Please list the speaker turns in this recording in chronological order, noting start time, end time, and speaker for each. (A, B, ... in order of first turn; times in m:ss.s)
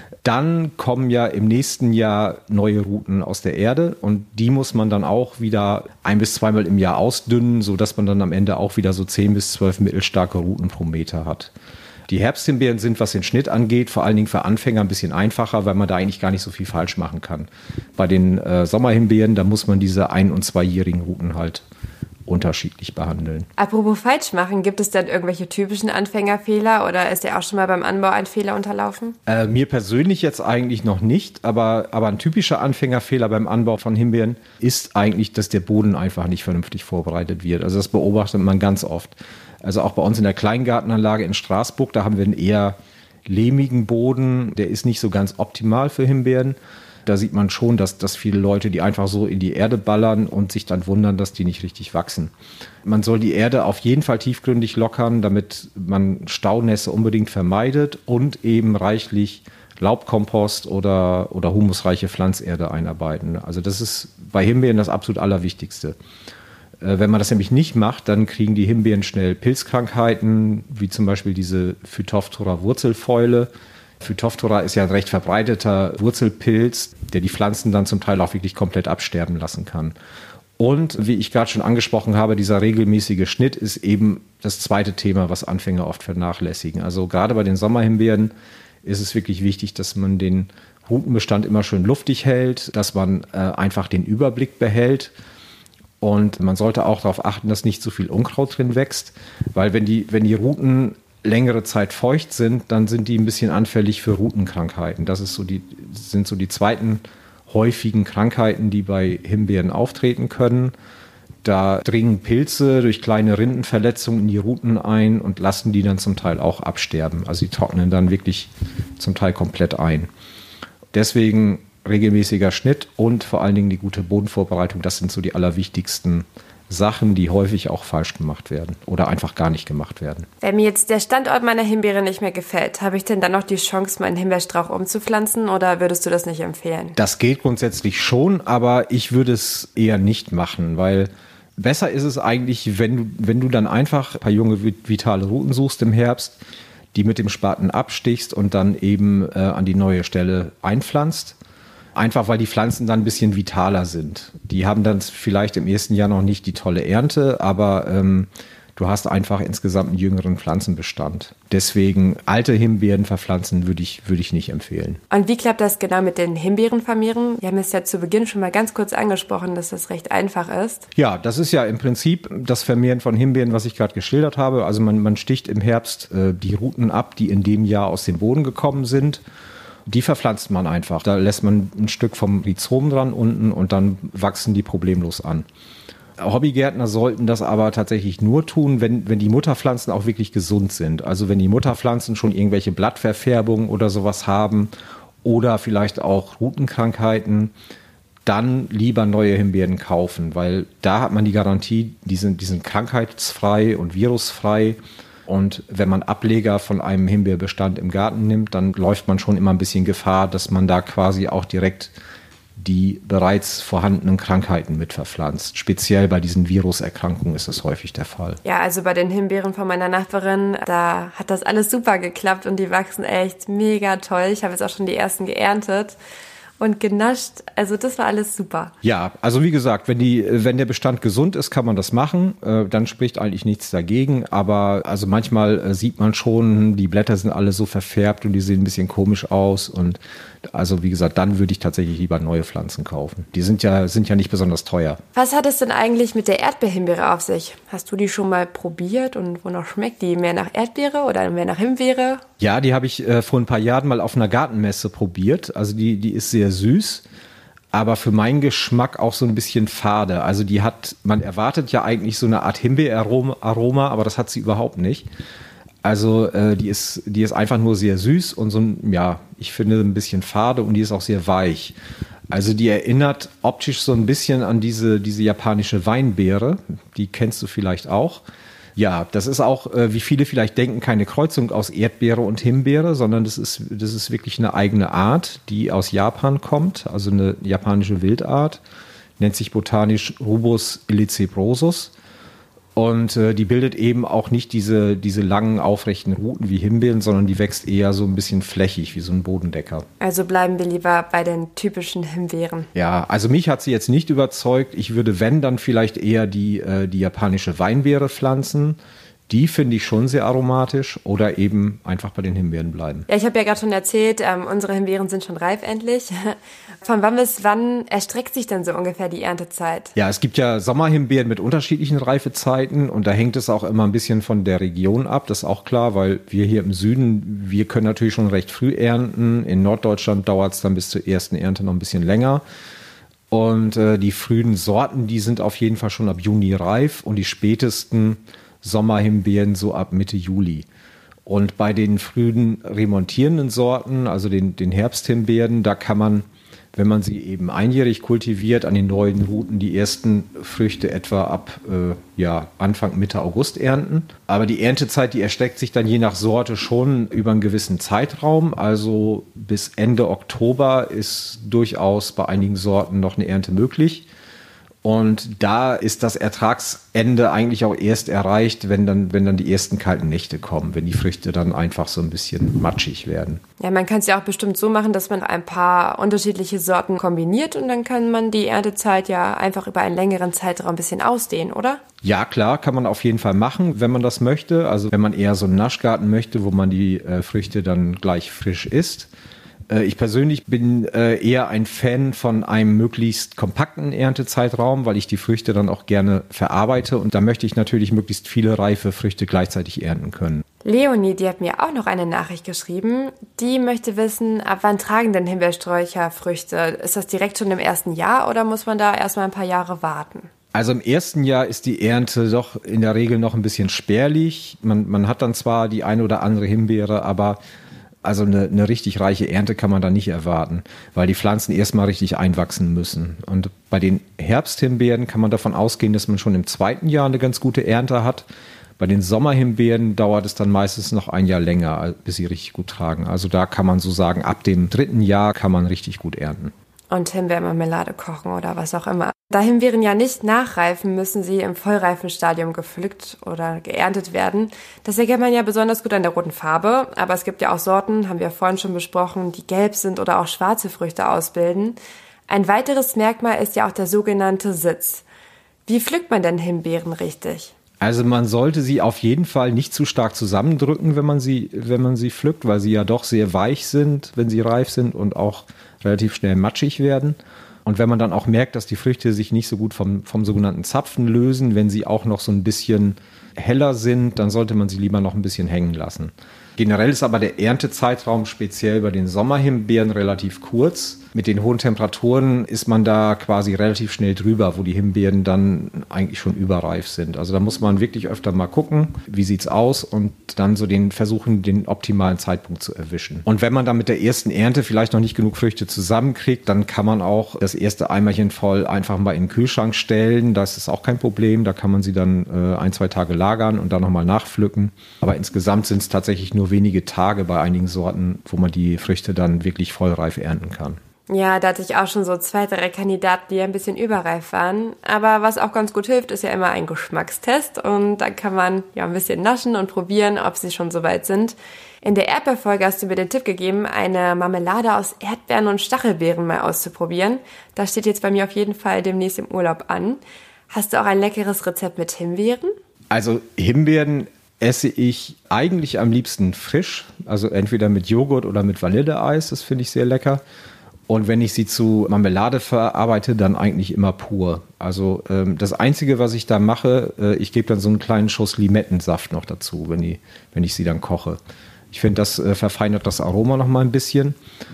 0:00.2-0:11.5 A
0:12.1-0:21.6 A
0:22.3-0:23.5 A
0:23.6-0:29.2 B
0:29.3-0:52.3 A
0:52.8-1:06.0 A
1:06.8-1:13.5 A
1:14.0-1:19.9 A
1:20.6-1:28.3 A
1:28.8-1:35.1 A
1:36.0-1:50.7 A
1:51.4-2:00.1 A
2:00.9-2:10.3 A
2:10.4-2:17.0 B
2:17.0-2:26.4 A
2:26.9-2:31.4 A
2:31.9-2:45.0 A
2:45.1-2:50.9 B
2:50.9-2:59.2 A
2:59.8-3:05.4 A
3:06.2-3:14.7 A
3:15.2-3:17.5 A
3:18.2-3:31.9 A
3:32.6-3:38.4 A
3:38.4-3:46.0 B
3:46.6-3:48.7 B
3:48.8-4:00.0 A
4:00.5-4:05.0 A
4:05.1-4:12.2 B
4:12.4-4:17.0 A
4:17.7-4:25.1 A
4:25.8-4:31.8 A
4:32.3-4:38.2 A
4:38.8-4:48.6 A
4:49.2-4:51.9 A
4:52.8-4:59.8 A
5:00.0-5:02.7 B
5:02.7-5:08.8 A
5:09.3-5:13.1 A
5:13.1-5:19.9 B
5:20.0-5:32.4 A
5:33.3-5:40.6 A
5:41.2-6:04.1 A
6:04.8-6:13.4 A
6:13.6-6:21.8 B
6:22.0-6:29.1 A
6:29.7-6:40.4 A
6:40.6-6:50.3 B
6:50.5-6:57.4 A
6:58.0-7:08.3 A
7:08.8-7:16.5 A
7:16.9-7:31.8 B
7:32.3-7:35.0 B
7:35.6-7:37.5 B
7:37.8-8:30.8 A
8:31.1-8:52.5 B
8:52.9-9:00.2 A
9:00.9-9:11.2 A
9:11.7-9:14.2 A